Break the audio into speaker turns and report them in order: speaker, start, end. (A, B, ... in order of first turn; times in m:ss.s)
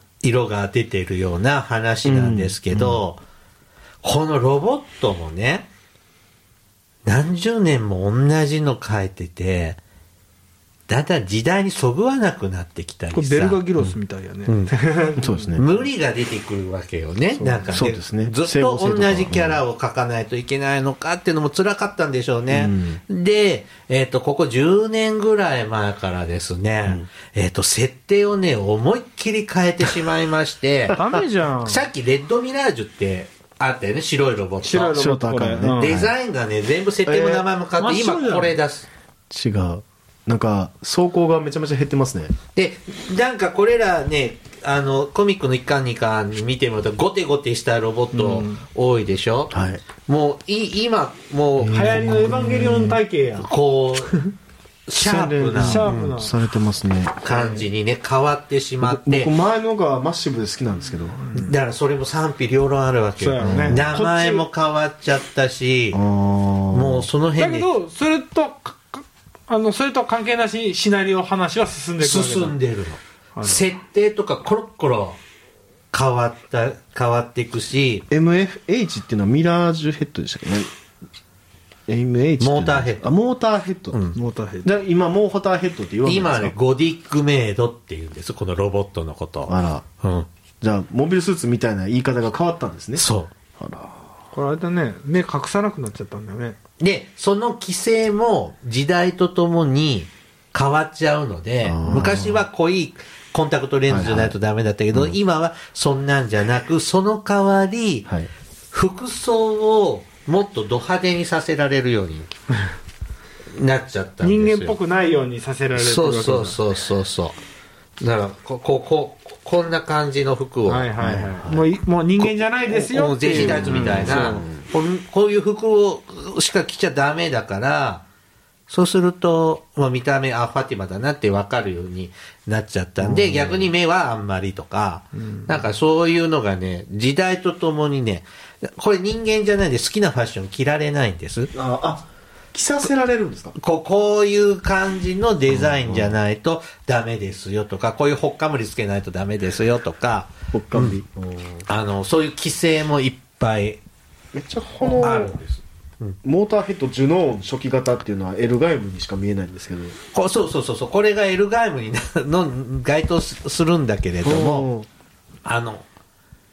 0:00.2-0:03.2 A
0:02.0-0:03.0 B
0:04.0-0:05.7 A
0:07.0-0:09.8 A
0:10.9-0:13.6 A
0:13.1-0:15.6 C
0:14.5-0:14.7 A
0:15.2-0:15.8 B
0:15.6-0:31.0 A
0:17.4-0:19.6 B
0:22.5-0:23.0 B
0:30.9-0:31.8 C
0:31.6-0:35.0 A
0:34.6-0:36.0 C
0:34.9-0:36.1 B
0:35.8-0:38.9 A
0:37.0-0:37.5 B
0:37.8-0:38.5 C
0:39.3-0:42.4 B
0:42.6-0:49.5 A
0:48.1-0:48.6 C
0:49.5-0:49.8 B
0:50.0-0:52.1 A
0:51.6-0:53.0 B
0:51.7-0:53.5 C
0:53.4-0:54.1 A
0:54.9-0:56.2 A
0:55.0-0:57.6 B
0:55.6-0:56.4 C
0:57.2-0:59.3 A
0:58.8-1:01.2 B
1:01.2-1:01.5 C
1:01.3-1:06.0 A
1:03.2-1:04.4 C
1:03.4-1:03.9 B
1:05.9-1:07.1 B
1:06.7-1:07.7 A
1:07.4-1:12.6 C
1:12.0-1:15.2 A
1:13.4-1:13.7 C
1:15.9-1:18.1 A
1:18.1-1:20.7 B
1:21.9-1:24.0 B
1:22.4-1:23.1 A
1:23.9-1:24.2 A
1:24.2-1:24.7 C
1:24.6-1:26.6 B
1:26.0-1:30.3 A
1:29.5-1:29.8 B
1:30.6-1:33.1 B
1:33.0-1:33.3 A
1:33.6-1:34.0 B
1:34.3-1:36.6 C
1:36.8-1:48.1 A
1:41.6-1:42.4 B
1:43.9-1:44.4 B
1:48.7-1:52.3 A
1:53.6-1:54.8 A
1:54.2-1:56.6 C
1:55.8-1:57.4 A
1:58.0-2:00.9 A
2:00.7-2:04.5 C
2:01.0-2:01.6 B
2:02.2-2:08.0 A
2:03.3-2:04.6 B
2:08.7-2:21.5 A
2:13.0-2:13.7 B
2:21.5-2:23.6 B
2:23.6-2:31.0 A
2:25.5-2:26.2 B
2:30.5-2:31.6 B
2:31.7-2:33.8 A
2:34.3-2:35.5 B
2:35.0-2:35.5 A
2:36.2-2:40.0 B
2:40.1-2:44.7 A
2:44.2-2:44.9 B
2:45.4-2:45.8 A